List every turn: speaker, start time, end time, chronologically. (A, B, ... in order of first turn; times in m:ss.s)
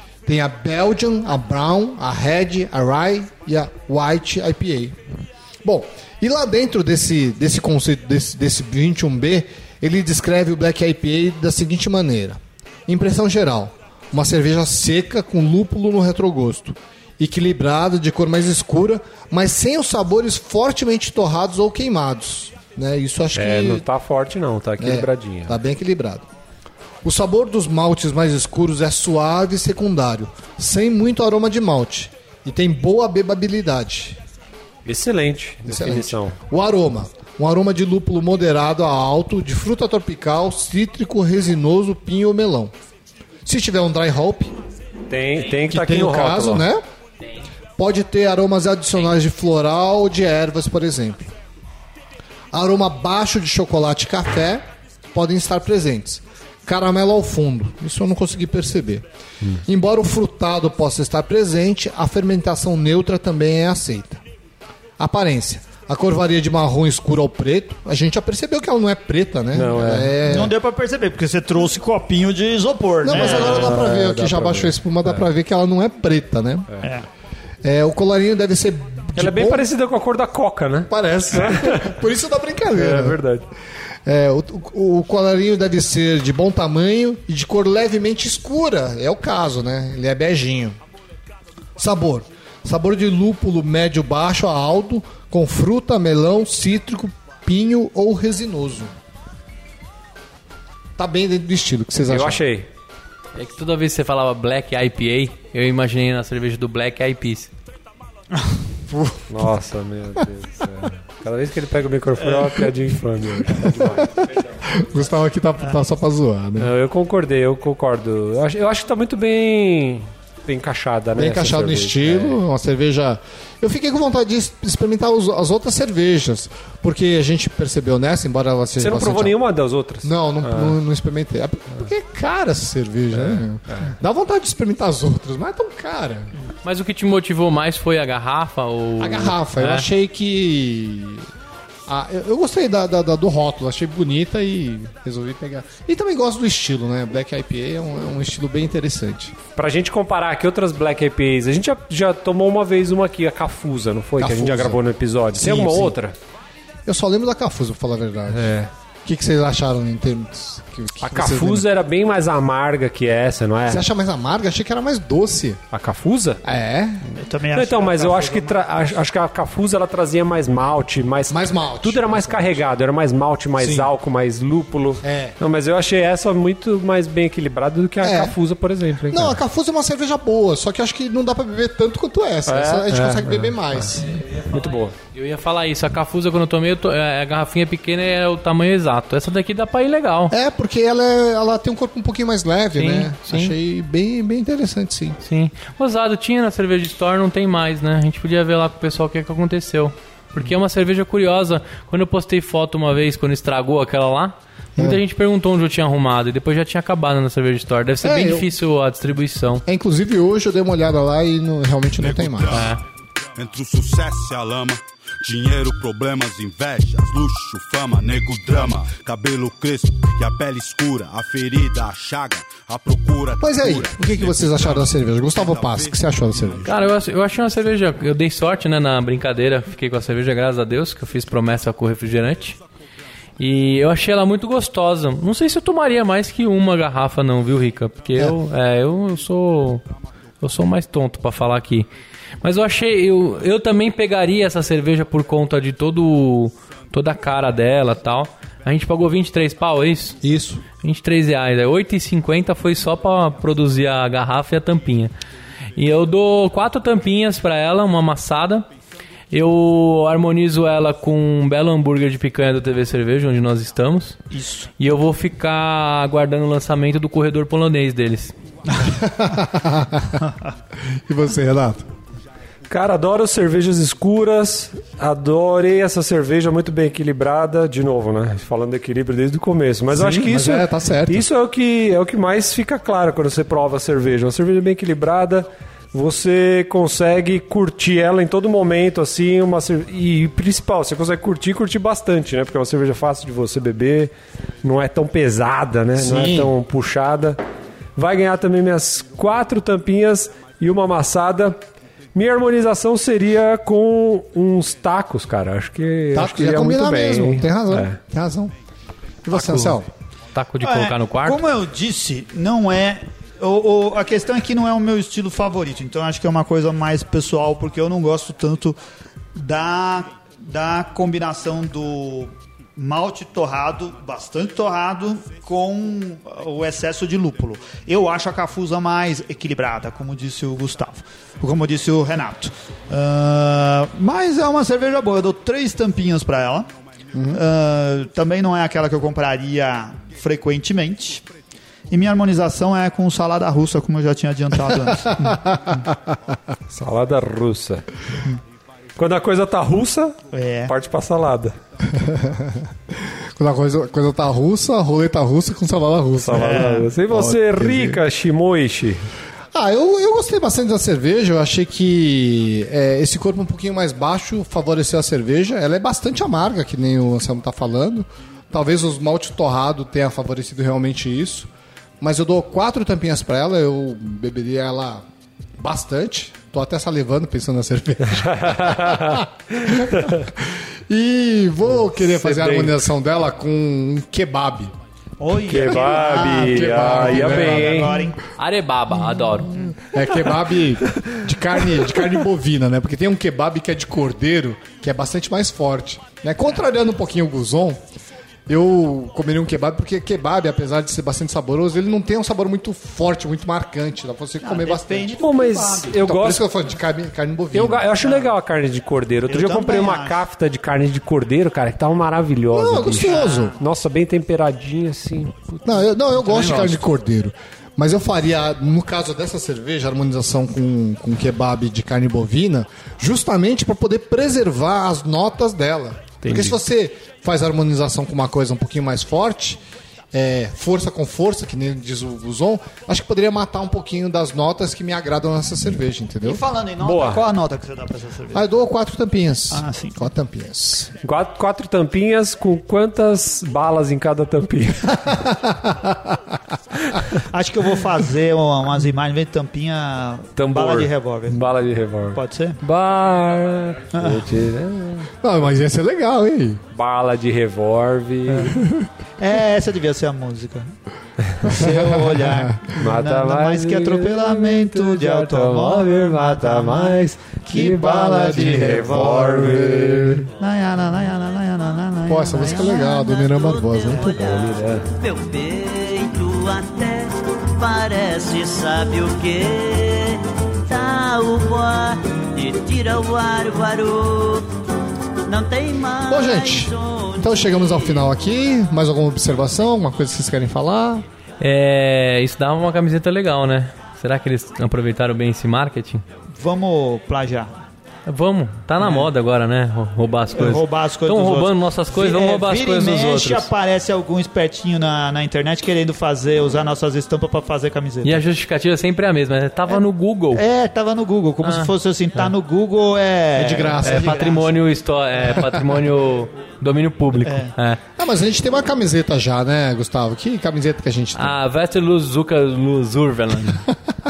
0:00.3-0:05.0 A
0:05.6-0:23.8 A
0:23.4-0:25.6 B
0:24.8-0:26.3 A
0:27.0-0:34.2 A
0:34.8-0:36.4 B
0:35.7-0:42.7 A
0:43.4-0:44.6 A
0:45.1-0:46.7 B
0:45.6-0:46.8 A
0:47.8-0:51.3 A
0:52.5-0:59.0 A
0:59.6-1:04.2 A
1:05.0-1:10.5 A
1:09.5-1:10.2 B
1:10.3-1:13.8 C
1:13.0-1:16.7 A
1:13.1-1:15.3 B
1:17.6-1:19.7 A
1:19.2-1:22.0 B
1:20.9-1:23.2 A
1:22.7-1:23.5 B
1:24.0-1:30.8 A
1:31.8-1:38.9 A
1:41.0-1:42.4 A
1:42.1-1:42.7 B
1:43.4-1:47.5 D
1:48.9-1:49.3 A
1:49.3-1:54.7 B
1:53.4-1:56.7 A
1:56.6-2:02.4 B
2:01.2-2:09.4 A
2:08.8-2:10.8 B
2:10.0-2:16.3 A
2:13.1-2:13.9 B
2:16.6-2:19.9 D
2:19.0-2:21.3 A
2:21.9-2:29.4 A
2:29.6-2:36.2 B
2:34.2-2:36.0 A
2:36.9-2:41.7 A
2:38.3-2:38.7 B
2:41.0-2:43.8 B
2:43.7-2:45.6 A
2:45.7-2:46.4 B
2:46.4-2:47.1 A
2:47.2-2:48.9 C
2:47.5-2:59.4 B
2:51.3-2:52.6 A
2:53.6-2:53.9 A
2:55.0-2:55.4 A
2:58.0-2:58.4 A
2:59.1-3:04.0 A
3:02.5-3:05.0 B
3:04.0-3:10.3 D
3:10.3-3:15.2 A
3:12.8-3:13.6 D
3:15.2-3:29.6 D
3:28.0-3:28.5 A
3:29.7-3:32.7 A
3:32.0-3:32.8 E
3:32.4-3:32.8 D
3:33.4-3:47.0 E
3:43.4-3:46.7 A
3:46.6-3:52.6 D
3:53.4-3:59.8 D
4:00.4-4:01.9 D
4:02.4-4:15.1 D
4:10.2-4:10.6 A
4:15.8-4:18.7 D
4:19.3-4:24.2 D
4:24.3-4:24.7 C
4:24.8-4:28.4 D
4:28.8-4:30.2 A
4:30.9-4:31.9 A
4:32.7-4:54.1 B
4:39.9-4:41.2 A
4:54.6-4:57.4 B
4:56.0-4:56.5 A
4:58.0-5:01.6 B
5:02.1-5:08.0 B
5:06.1-5:08.5 A
5:09.3-5:09.9 A
5:09.4-5:09.8 D
5:10.3-5:11.4 D
5:10.6-5:18.8 C
5:19.4-5:36.7 C
5:37.1-5:37.4 A
5:37.3-5:41.2 C
5:41.9-5:45.8 C
5:45.0-5:46.1 A
5:46.7-5:47.9 B
5:49.0-5:51.6 B
5:50.3-5:50.7 C
5:51.8-5:58.0 A
5:56.2-5:59.1 B
5:56.3-5:56.9 C
5:59.5-6:11.5 A
6:12.0-6:15.0 A
6:15.6-6:24.7 A
6:18.3-6:20.2 B
6:22.0-6:22.8 B
6:25.2-6:28.2 C
6:25.5-6:27.9 B
6:25.9-6:27.9 A
6:28.4-6:29.5 D
6:29.8-6:37.8 A
6:38.5-6:45.2 A
6:44.4-6:46.0 C
6:45.2-6:46.4 B
6:46.0-6:47.9 A
6:47.5-6:55.7 B
6:48.0-6:48.4 C
6:49.3-6:50.2 C
6:52.5-6:53.6 A
6:53.0-6:53.5 C
6:55.6-7:09.6 A
6:56.2-6:56.8 C
7:06.2-7:06.5 D
7:10.1-7:16.4 A
7:16.2-7:18.4 C
7:16.8-7:17.2 B
7:18.3-7:21.0 A
7:19.5-7:20.0 C
7:21.0-7:25.2 B
7:25.1-7:26.2 A
7:27.2-7:31.4 C
7:30.4-7:35.1 B
7:32.2-7:32.6 C
7:33.9-7:34.3 C
7:35.2-7:36.6 A
7:36.7-7:38.7 B
7:38.4-7:38.9 A
7:39.2-7:40.7 C
7:41.4-7:49.2 C
7:41.6-7:42.7 A
7:42.8-7:50.3 B
7:48.4-7:50.3 A
7:50.4-7:53.0 C
7:52.1-7:54.2 A
7:52.6-8:04.5 F
7:53.9-7:54.9 B
8:05.2-8:08.1 F
8:06.1-8:11.0 A
8:11.4-8:16.0 D
8:16.4-8:17.5 C
8:18.1-8:23.5 D
8:18.8-8:19.1 C
8:20.4-8:28.2 C
8:28.0-8:30.4 D
8:29.7-8:34.6 C
8:31.4-8:32.3 D
8:33.4-8:34.2 A
8:33.7-8:37.8 D
8:35.2-8:35.5 C
8:37.2-8:37.5 C
8:38.0-8:41.4 A
8:41.2-8:43.6 D